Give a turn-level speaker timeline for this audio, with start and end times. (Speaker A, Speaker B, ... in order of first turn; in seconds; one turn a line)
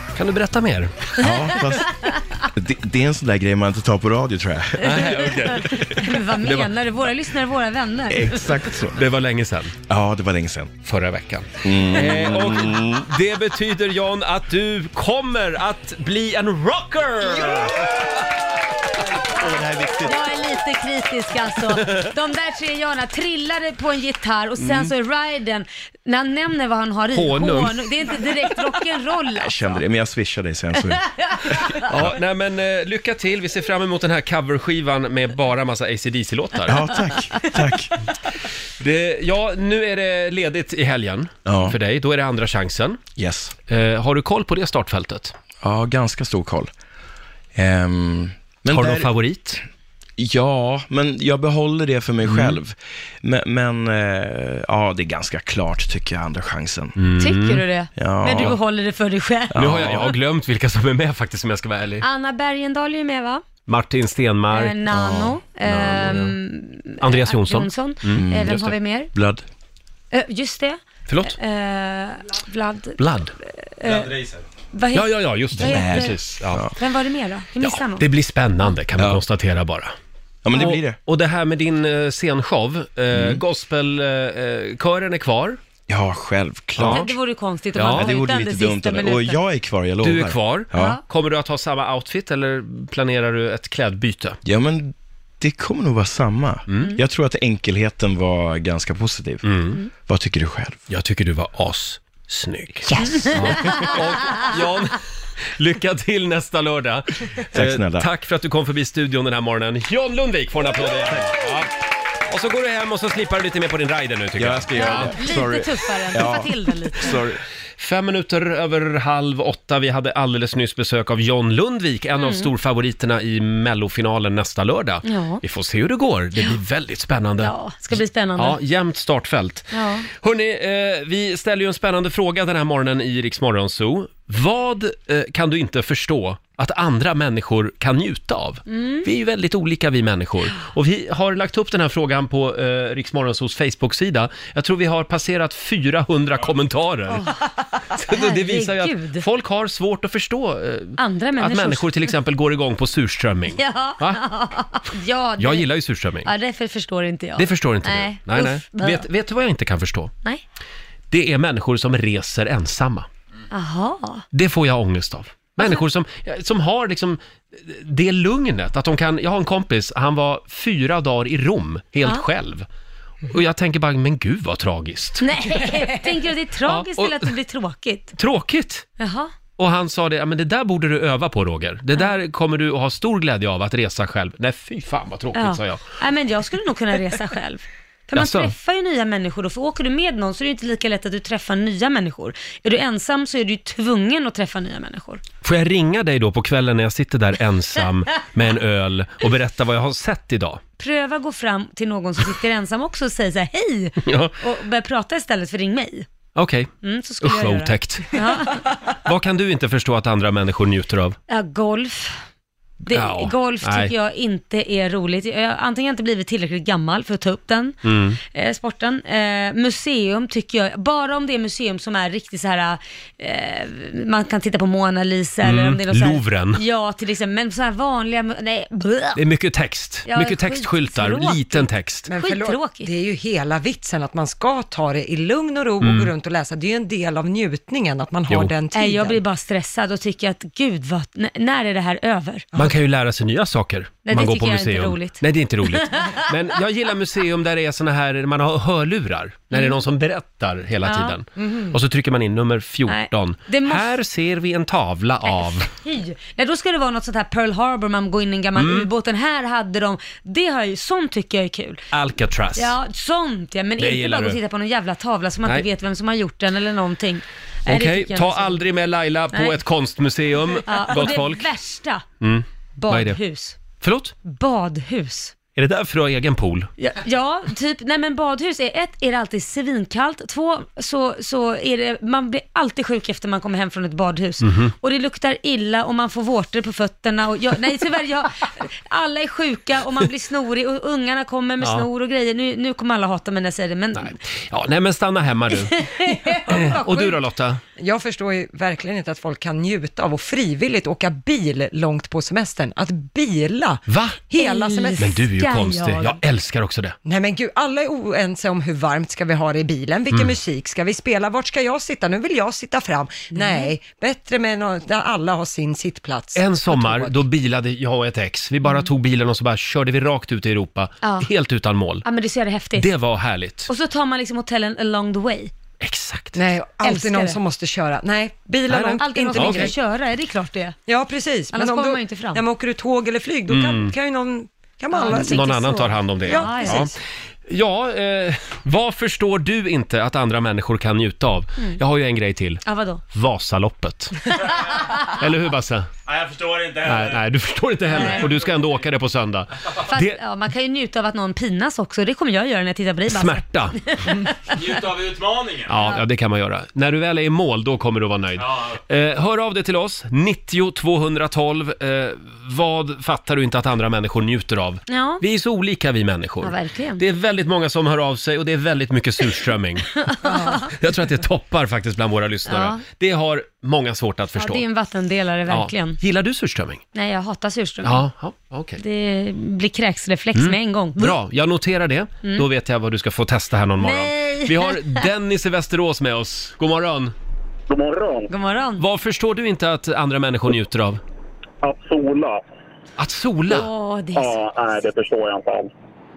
Speaker A: 0.1-1.1
Speaker B: 1.2-5.4
Speaker A: 4.8-6.7
Speaker C: 4.8-8.6
Speaker B: 8.1-9.0
Speaker A: 8.9-9.8
Speaker B: 9.9-10.8
Speaker A: 10.8-18.1
Speaker B: 11.6-13.1
Speaker B: 17.2-18.3
Speaker B: 19.3-20.4
Speaker C: 20.0-29.6
Speaker A: 21.7-22.1
Speaker A: 24.6-24.9
Speaker A: 27.1-28.3
Speaker B: 29.4-32.1
Speaker C: 31.3-31.8
Speaker A: 31.9-37.0
Speaker B: 36.6-37.9
Speaker A: 38.8-43.0
Speaker B: 41.4-41.8
Speaker B: 43.1-43.5
Speaker A: 43.7-45.4
Speaker B: 45.6-46.7
Speaker B: 47.5-49.1
Speaker A: 48.7-49.6
Speaker B: 50.2-57.0
Speaker A: 52.2-52.6
Speaker A: 57.0-57.6
Speaker C: 57.2-60.1
Speaker B: 57.9-58.6
Speaker B: 59.5-60.1
Speaker A: 59.5-62.0
Speaker C: 62.0-63.4
Speaker A: 63.7-64.8
Speaker C: 64.5-69.1
Speaker B: 64.9-65.4
Speaker A: 65.6-66.3
Speaker A: 67.0-68.8
Speaker B: 68.1-69.4
Speaker C: 70.1-74.1
Speaker A: 71.1-71.4
Speaker A: 73.0-73.3
Speaker D: 73.8-74.4
Speaker C: 74.7-78.1
Speaker A: 74.9-76.7
Speaker B: 75.5-76.7
Speaker A: 77.6-79.9
Speaker B: 79.0-79.2
Speaker B: 80.4-81.0
Speaker A: 80.5-85.6
Speaker B: 83.1-83.4
Speaker B: 85.9-87.1
Speaker A: 86.8-87.1
Speaker C: 86.8-89.4
Speaker A: 87.7-88.1
Speaker B: 87.8-91.0
Speaker A: 90.0-94.4
Speaker C: 90.7-91.0
Speaker B: 94.4-100.8
Speaker A: 96.7-97.0
Speaker A: 99.4-99.8
Speaker A: 100.9-111.7
Speaker B: 102.9-103.9
Speaker C: 103.0-104.5
Speaker B: 107.5-108.1
Speaker A: 112.3-115.2
Speaker B: 114.4-117.4
Speaker C: 114.8-117.1
Speaker A: 117.8-147.3
Speaker C: 122.1-122.5
Speaker C: 125.0-125.4
Speaker C: 127.4-128.6
Speaker C: 129.7-130.1
Speaker C: 138.7-139.1
Speaker C: 147.1-149.2
Speaker A: 147.9-154.2
Speaker C: 151.0-152.1
Speaker C: 153.5-155.7
Speaker A: 155.4-156.3
Speaker C: 156.2-159.1
Speaker A: 157.4-160.1
Speaker A: 161.1-163.1
Speaker C: 163.5-164.2
Speaker A: 164.3-172.7
Speaker A: 173.3-175.9
Speaker C: 175.2-178.2
Speaker A: 176.6-177.3
Speaker A: 178.2-178.8
Speaker C: 179.0-179.3
Speaker A: 179.6-185.8
Speaker C: 185.3-195.2
Speaker A: 188.1-188.5
Speaker A: 195.4-200.6
Speaker C: 200.8-206.1
Speaker A: 204.0-204.3
Speaker A: 206.3-211.2
Speaker C: 206.8-208.6
Speaker C: 211.3-212.2
Speaker A: 212.8-213.9
Speaker C: 212.9-229.2
Speaker A: 217.8-218.2
Speaker A: 225.4-226.6
Speaker A: 229.1-232.1
Speaker C: 230.1-232.9
Speaker E: 232.1-239.2
Speaker A: 235.8-236.1
Speaker A: 238.3-238.5
Speaker C: 238.7-242.5
Speaker A: 242.5-255.7
Speaker C: 244.0-246.2
Speaker C: 249.5-249.8
Speaker C: 250.8-251.4
Speaker C: 252.9-253.9
Speaker C: 255.2-261.8
Speaker A: 258.5-258.9
Speaker A: 261.9-262.7
Speaker C: 262.6-268.6
Speaker A: 263.8-264.4
Speaker A: 267.6-271.5
Speaker C: 269.3-269.6
Speaker C: 270.6-272.0
Speaker A: 272.2-273.2
Speaker C: 272.8-273.6
Speaker A: 273.8-274.1
Speaker C: 274.2-275.3
Speaker A: 275.6-276.7
Speaker C: 276.8-294.2
Speaker A: 284.4-284.7
Speaker A: 291.6-291.9
Speaker A: 293.9-295.8
Speaker C: 295.6-297.2
Speaker A: 296.4-297.6
Speaker E: 297.8-305.1
Speaker A: 303.9-304.2
Speaker C: 304.4-306.2
Speaker A: 305.0-306.9
Speaker E: 307.0-317.2
Speaker A: 310.1-310.4
Speaker C: 313.3-313.7
Speaker A: 316.3-322.0
Speaker C: 321.0-321.3
Speaker C: 322.0-322.9
Speaker A: 322.8-323.7
Speaker C: 323.7-325.5
Speaker A: 325.8-326.4
Speaker E: 326.3-329.7
Speaker C: 326.8-327.4
Speaker A: 328.7-329.7
Speaker C: 329.0-330.8
Speaker E: 330.9-335.5
Speaker C: 331.5-332.4
Speaker A: 333.5-333.9
Speaker C: 334.9-336.9
Speaker A: 335.1-336.9
Speaker E: 336.2-336.9
Speaker A: 337.5-345.9
Speaker C: 342.6-343.0
Speaker D: 346.1-347.2
Speaker A: 346.8-350.2
Speaker C: 347.9-348.3
Speaker D: 348.0-348.6
Speaker C: 349.9-354.6
Speaker A: 353.1-353.8
Speaker D: 354.5-355.7
Speaker A: 355.7-370.0
Speaker D: 358.4-358.8
Speaker C: 364.9-365.2
Speaker C: 366.4-367.0
Speaker C: 370.0-370.7
Speaker A: 370.6-374.6
Speaker C: 372.5-372.8
Speaker C: 374.4-376.0
Speaker A: 375.5-376.8
Speaker C: 376.9-378.1
Speaker A: 377.8-378.8
Speaker C: 378.8-381.2
Speaker A: 380.3-387.1
Speaker C: 383.8-385.1
Speaker F: 387.7-388.3
Speaker C: 388.3-388.8
Speaker A: 388.8-391.0
Speaker F: 391.6-392.4
Speaker A: 393.0-393.7
Speaker C: 393.5-394.4
Speaker F: 394.1-395.7